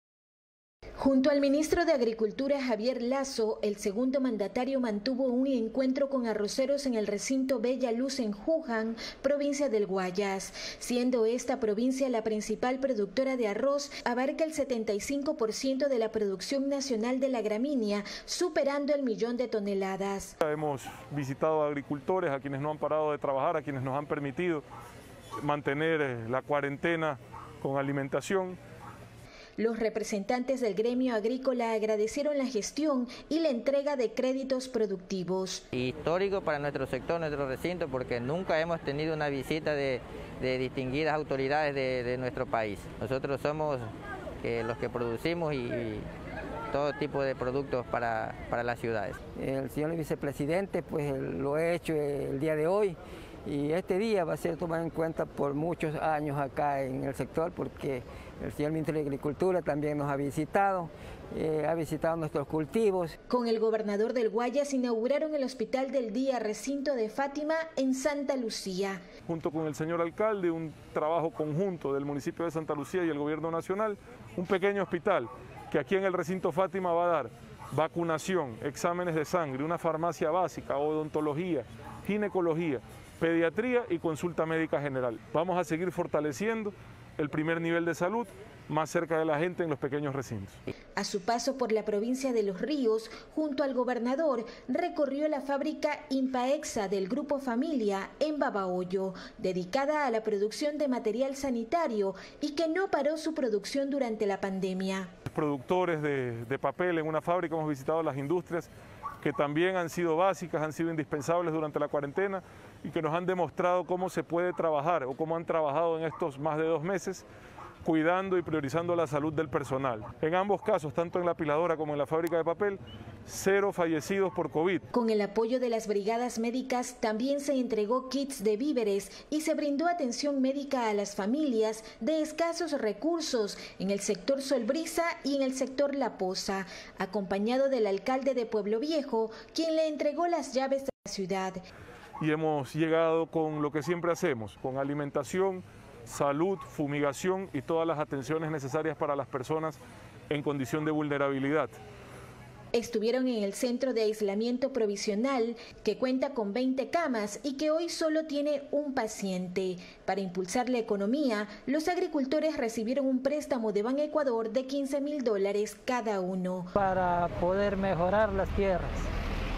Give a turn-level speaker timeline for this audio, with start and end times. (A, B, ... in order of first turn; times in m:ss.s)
0:01.0-0:20.3 A
0:20.4-0:24.6 B
0:25.4-0:28.6 B
0:29.6-0:35.6 A
0:35.7-0:46.1 C
0:46.7-0:49.2 C
0:49.4-1:03.2 D
1:03.3-1:09.0 A
1:09.3-1:30.6 B
1:31.0-1:45.1 A
1:45.3-1:48.7 B
1:49.2-1:57.3 B
1:57.8-2:04.8 B
2:04.9-2:21.6 A
2:22.2-2:31.7 B
2:32.7-2:46.7 A
2:46.8-2:49.1 E